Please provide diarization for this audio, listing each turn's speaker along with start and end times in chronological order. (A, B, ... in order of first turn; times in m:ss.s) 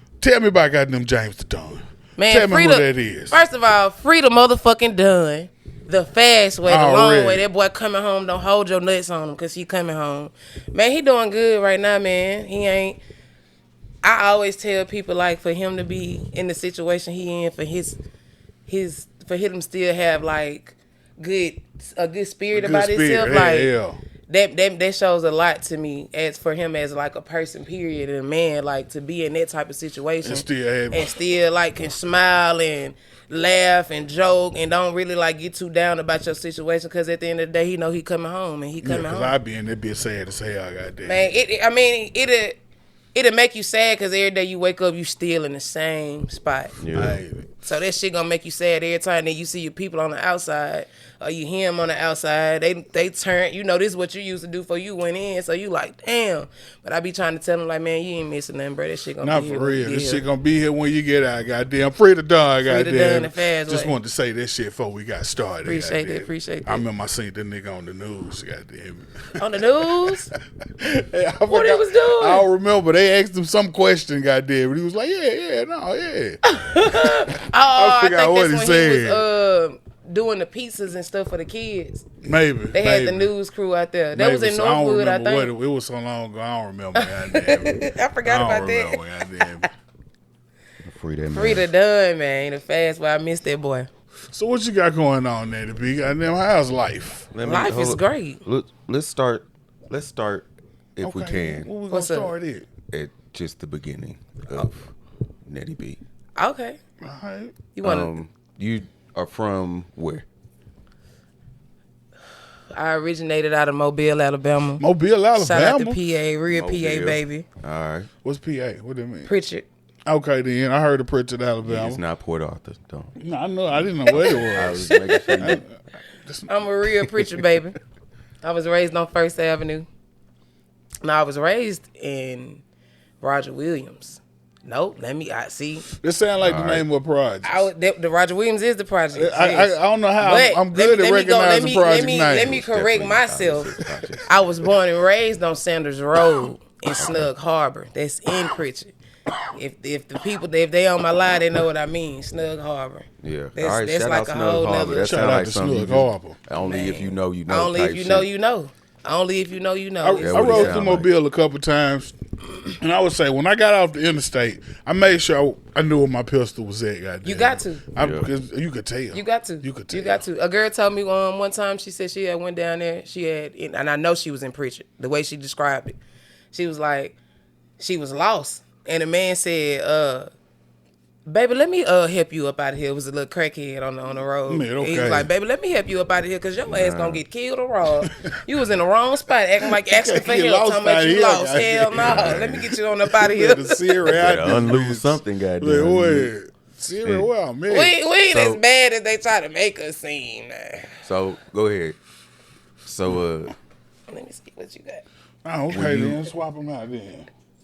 0:00.2-0:03.4 A
0:02.2-0:13.0 B
0:06.6-0:07.4 A
0:14.0-0:18.0 B
0:18.7-0:23.7 B
0:22.5-0:24.0 A
0:24.3-0:39.4 B
0:30.2-0:31.1 A
0:38.8-0:41.3 A
0:41.0-0:42.6 B
0:43.1-0:46.8 B
0:46.8-0:47.2 C
0:46.9-0:47.5 A
0:47.6-1:00.2 B
0:59.2-1:09.4 A
1:02.6-1:04.0 B
1:05.6-1:06.8 B
1:09.4-1:10.3 B
1:10.8-1:16.4 A
1:11.5-1:12.5 B
1:16.4-1:22.0 B
1:17.7-1:19.2 A
1:22.2-1:23.3 A
1:22.7-1:25.5 B
1:24.1-1:29.7 A
1:27.0-1:29.7 B
1:30.8-1:31.7 C
1:31.3-1:33.9 B
1:34.3-1:37.3 A
1:37.3-1:41.7 C
1:37.4-1:38.4 B
1:41.0-1:42.7 A
1:41.9-1:42.4 B
1:42.9-1:44.9 C
1:45.5-1:46.0 C
1:46.4-1:46.8 B
1:47.0-1:47.6 A
1:47.8-1:48.2 B
1:47.8-1:50.2 C
1:52.7-1:54.8 B
1:54.8-1:56.0 A
1:55.4-1:57.5 B
1:56.5-1:58.1 C
1:58.2-1:59.3 A
1:59.2-1:59.7 B
2:00.1-2:02.0 A
2:01.6-2:03.2 C
2:03.2-2:06.5 A
2:03.7-2:05.6 C
2:04.7-2:05.6 B
2:06.5-2:07.8 B
2:08.4-2:09.9 B
2:11.0-2:12.6 B
2:13.2-2:15.9 B
2:16.0-2:17.7 A
2:16.4-2:16.8 C
2:17.4-2:28.9 B
2:19.1-2:22.6 A
2:22.4-2:24.3 C
2:27.0-2:27.3 C
2:29.5-2:35.1 B
2:33.2-2:38.3 C
2:35.0-2:36.4 A
2:36.6-2:40.8 B
2:40.0-2:42.2 A
2:40.2-2:41.1 C
2:42.8-2:50.2 A
2:47.2-2:47.9 B
2:48.0-2:48.3 C
2:49.1-2:56.0 B
2:56.5-2:57.2 B
2:57.8-3:00.3 B
3:01.3-3:14.2 B
3:04.5-3:05.3 A
3:06.7-3:07.2 C
3:09.6-3:18.0 A
3:12.0-3:12.6 C
3:14.1-3:16.3 C
3:17.7-3:21.0 B
3:18.3-3:18.6 C
3:21.0-3:22.0 C
3:22.8-3:23.6 C
3:24.1-3:25.0 B
3:25.4-3:27.3 A
3:25.7-3:26.2 C